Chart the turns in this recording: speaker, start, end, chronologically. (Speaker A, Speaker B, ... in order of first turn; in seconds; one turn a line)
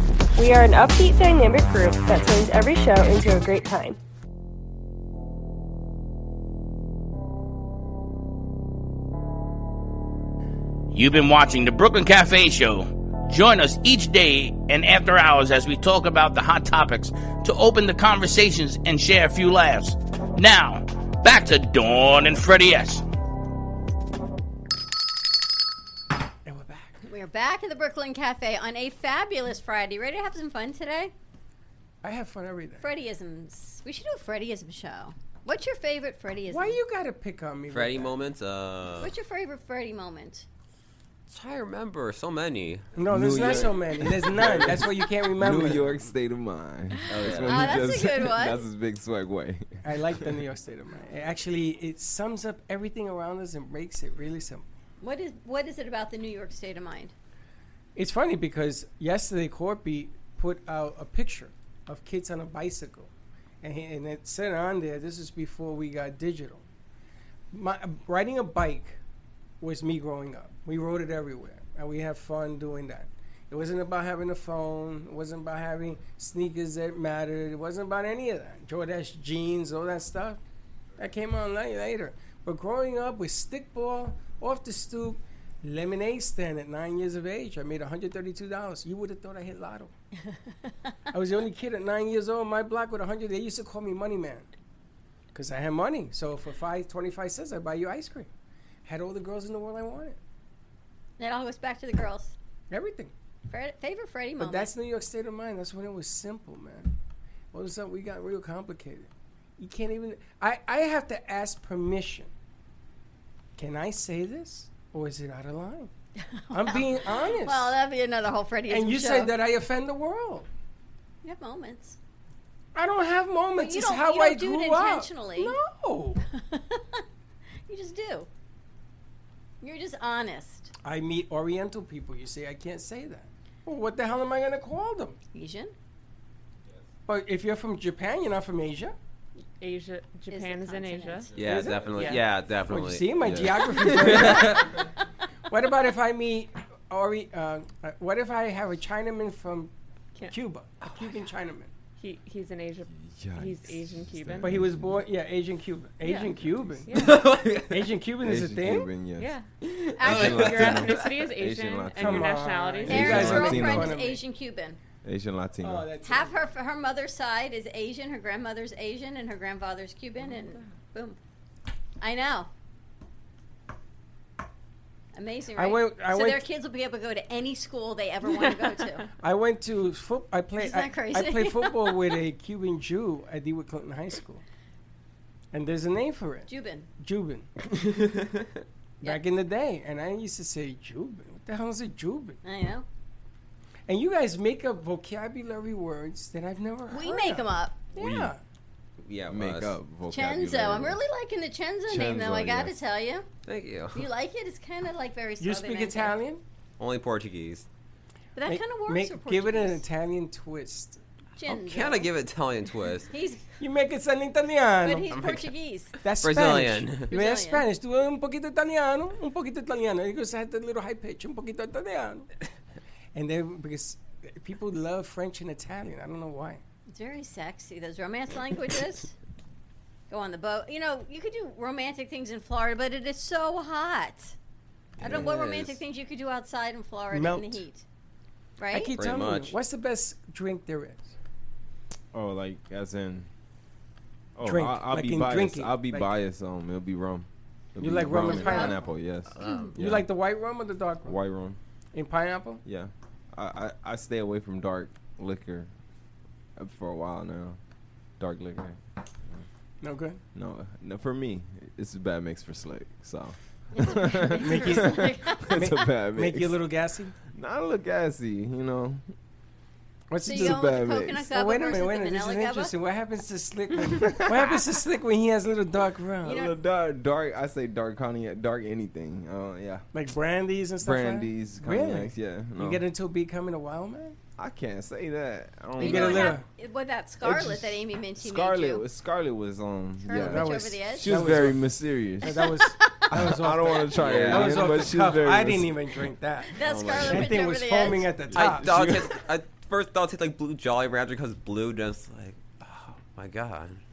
Speaker A: 0.3-4.0
Speaker B: 10.9-23.0
Speaker C: 26.4-27.0
Speaker D: 27.0-31.1
Speaker C: 32.0-32.8
Speaker D: 32.8-36.8
Speaker C: 36.5-38.1
Speaker E: 37.7-39.1
Speaker D: 39.0-40.5
Speaker E: 41.3-43.7
Speaker C: 42.9-46.0
Speaker F: 43.0-50.2
Speaker E: 47.1-47.8
Speaker D: 47.4-48.6
Speaker C: 49.8-54.7
Speaker D: 55.0-57.1
Speaker C: 57.9-63.1
Speaker C: 63.6-66.6
Speaker C: 67.5-69.0
Speaker C: 69.6-80.4
Speaker C: 81.0-89.9
Speaker C: 91.1-94.5
Speaker C: 95.3-98.3
Speaker C: 98.8-100.2
Speaker D: 101.2-102.3
Speaker C: 102.7-103.1
Speaker D: 103.5-104.7
Speaker C: 104.4-107.0
Speaker C: 107.5-112.3
Speaker C: 113.6-115.9
Speaker D: 116.2-119.3
Speaker C: 116.5-117.8
Speaker C: 118.7-120.5
Speaker D: 121.2-122.0
Speaker C: 122.7-126.2
Speaker D: 123.6-125.6
Speaker D: 126.3-127.0
Speaker D: 127.7-128.3
Speaker D: 129.6-130.7
Speaker C: 130.8-135.2
Speaker D: 135.3-135.7
Speaker C: 137.1-138.9
Speaker G: 139.6-141.4
Speaker D: 140.3-141.3
Speaker E: 141.3-144.8
Speaker C: 141.4-144.8
Speaker C: 145.5-149.7
Speaker C: 150.3-151.7
Speaker G: 152.0-154.6
Speaker F: 152.9-154.9
Speaker C: 154.4-156.9
Speaker G: 156.0-156.3
Speaker G: 156.9-157.3
Speaker E: 156.9-157.7
Speaker C: 157.7-158.9
Speaker F: 158.2-159.3
Speaker G: 159.2-159.4
Speaker E: 159.6-161.2
Speaker D: 160.0-160.4
Speaker F: 160.0-164.0
Speaker G: 160.1-163.4
Speaker C: 161.9-164.2
Speaker D: 162.9-164.8
Speaker F: 165.0-165.8
Speaker C: 165.6-166.4
Speaker D: 166.0-171.2
Speaker D: 172.0-172.5
Speaker D: 175.1-179.1
Speaker C: 175.6-176.5
Speaker C: 179.2-184.4
Speaker D: 180.6-182.1
Speaker C: 185.5-187.5
Speaker D: 186.5-186.9
Speaker C: 189.0-192.4
Speaker D: 192.4-192.8
Speaker C: 193.9-198.4
Speaker D: 196.9-197.8
Speaker F: 197.9-198.3
Speaker E: 199.0-199.8
Speaker F: 199.3-201.0
Speaker D: 200.1-203.2
Speaker F: 201.9-202.8
Speaker E: 203.4-204.1
Speaker D: 203.9-206.2
Speaker C: 205.4-206.4
Speaker E: 206.8-207.7
Speaker D: 208.3-209.8
Speaker C: 208.4-211.0
Speaker D: 211.3-212.1
Speaker E: 211.4-213.1
Speaker D: 213.1-213.4
Speaker C: 213.6-215.2
Speaker D: 214.8-215.9
Speaker E: 215.1-215.5
Speaker E: 216.0-217.0
Speaker C: 216.0-222.3
Speaker D: 217.1-217.6
Speaker C: 223.1-226.6
Speaker D: 226.9-229.1
Speaker D: 230.1-234.3
Speaker E: 235.0-235.8
Speaker D: 235.0-237.8
Speaker C: 237.1-237.6
Speaker D: 238.6-238.9
Speaker C: 238.7-241.1
Speaker E: 238.9-239.5
Speaker F: 242.1-243.3
Speaker F: 244.4-250.1
Speaker C: 244.4-246.1
Speaker C: 247.8-248.8
Speaker D: 248.2-248.8
Speaker E: 249.3-249.8
Speaker D: 249.4-249.7
Speaker C: 249.8-251.2
Speaker F: 251.1-251.6
Speaker C: 251.9-252.6
Speaker F: 252.6-255.7
Speaker F: 256.6-257.6
Speaker F: 258.2-258.8
Speaker C: 259.8-260.2
Speaker F: 260.3-266.6
Speaker D: 263.7-265.6
Speaker C: 264.3-267.1
Speaker F: 267.3-269.0
Speaker C: 270.1-270.8
Speaker D: 270.2-272.7
Speaker F: 270.3-271.3
Speaker C: 271.3-276.4
Speaker F: 274.0-274.4
Speaker D: 276.2-276.6
Speaker F: 276.2-279.8
Speaker C: 279.9-284.2
Speaker F: 280.8-282.8
Speaker F: 284.4-286.4
Speaker C: 285.8-286.4
Speaker D: 285.8-288.8
Speaker F: 287.2-292.5
Speaker D: 290.0-291.1
Speaker C: 290.1-298.9
Speaker D: 292.2-293.1
Speaker F: 293.1-295.7
Speaker E: 294.0-294.8
Speaker D: 296.5-298.1
Speaker E: 296.6-297.3
Speaker F: 298.3-299.1
Speaker E: 298.3-302.4
Speaker E: 303.1-303.8